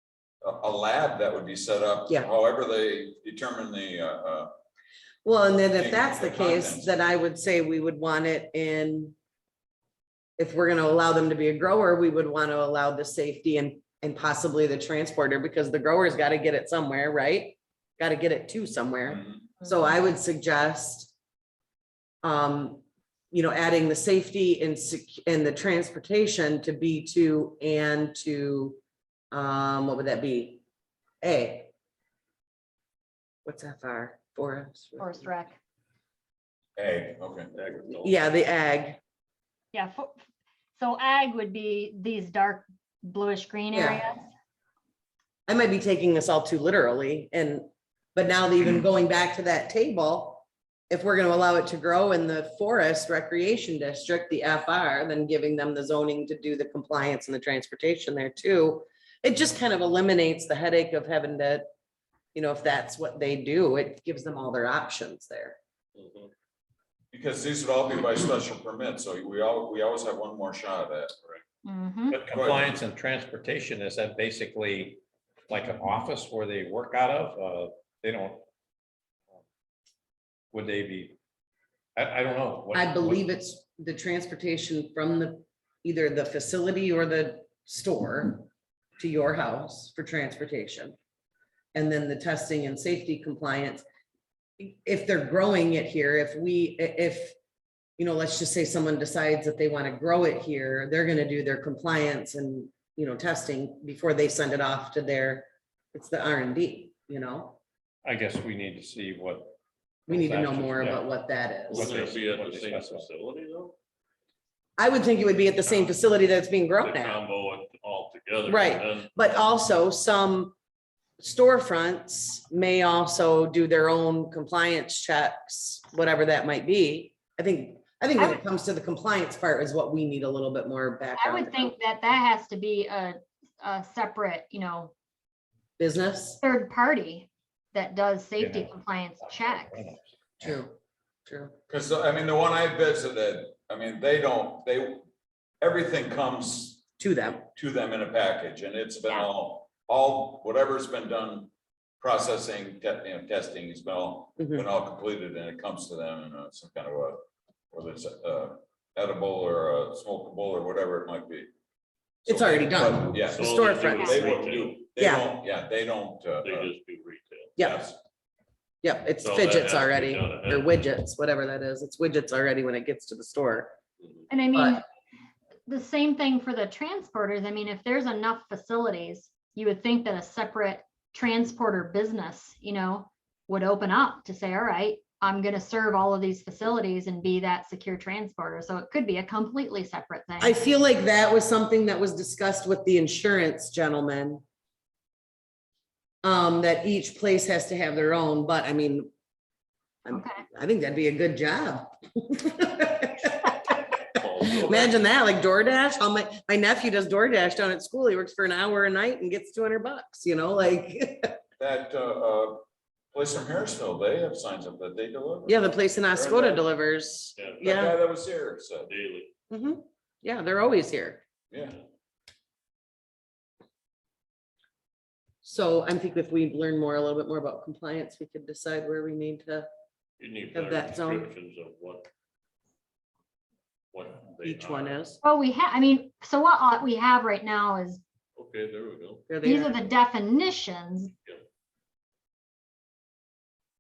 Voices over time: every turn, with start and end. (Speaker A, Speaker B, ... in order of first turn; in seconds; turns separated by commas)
Speaker A: 0.4-4.5, Speaker B: 5.2-9.1, Speaker A: 5.7-7.0, Speaker B: 10.4-21.1, Speaker A: 19.1-19.5, Speaker C: 19.6-19.9, Speaker B: 22.2-28.8, Speaker B: 29.3-30.6, Speaker B: 31.2-31.7, Speaker B: 33.5-35.3, Speaker C: 35.0-35.6, Speaker A: 36.8-37.5, Speaker D: 37.5-38.2, Speaker B: 37.9-39.0, Speaker C: 39.7-40.2, Speaker C: 40.8-44.3, Speaker B: 43.7-44.0, Speaker B: 45.5-61.6, Speaker B: 62.3-65.6, Speaker D: 65.9-66.3, Speaker A: 67.1-71.1, Speaker C: 71.6-72.2, Speaker E: 72.1-78.5, Speaker A: 72.2-72.8, Speaker E: 80.5-81.2, Speaker E: 82.0-83.2, Speaker B: 82.7-91.0, Speaker B: 91.7-93.8, Speaker B: 94.6-97.3, Speaker B: 98.0-107.6, Speaker E: 108.0-111.1, Speaker B: 110.1-111.9, Speaker E: 111.7-113.1, Speaker D: 111.7-113.8, Speaker B: 114.8-117.2, Speaker D: 115.7-116.0, Speaker D: 116.8-119.1, Speaker B: 118.5-120.5, Speaker B: 121.2-131.7, Speaker C: 128.2-128.4, Speaker C: 131.1-134.9, Speaker B: 135.8-136.4, Speaker C: 136.4-139.9, Speaker E: 138.4-140.6, Speaker B: 140.4-141.5, Speaker A: 141.7-145.1, Speaker A: 145.6-146.8, Speaker B: 147.0-147.4, Speaker A: 147.4-161.5, Speaker B: 154.4-154.6, Speaker B: 162.2-164.3, Speaker A: 162.2-166.7, Speaker D: 163.3-164.8, Speaker B: 165.0-165.3, Speaker D: 166.4-167.6, Speaker B: 167.6-167.9, Speaker A: 167.6-168.0, Speaker B: 168.8-173.8, Speaker D: 169.2-170.8, Speaker D: 174.0-174.3, Speaker C: 174.3-174.8, Speaker B: 174.5-174.8, Speaker C: 175.7-190.6, Speaker B: 190.4-194.4, Speaker B: 196.2-199.1, Speaker B: 200.1-203.8, Speaker C: 200.1-200.4, Speaker D: 204.1-205.0, Speaker B: 204.4-211.4, Speaker A: 211.6-216.7, Speaker B: 215.4-218.0, Speaker D: 217.3-217.9, Speaker A: 217.6-218.9, Speaker D: 218.8-219.3, Speaker B: 219.5-221.2, Speaker A: 221.5-221.8, Speaker B: 225.4-229.7, Speaker D: 230.2-232.1, Speaker B: 230.5-231.3, Speaker D: 233.9-235.0, Speaker B: 234.4-235.2, Speaker C: 235.2-238.0, Speaker D: 238.3-239.3, Speaker B: 239.3-239.8, Speaker C: 239.4-241.1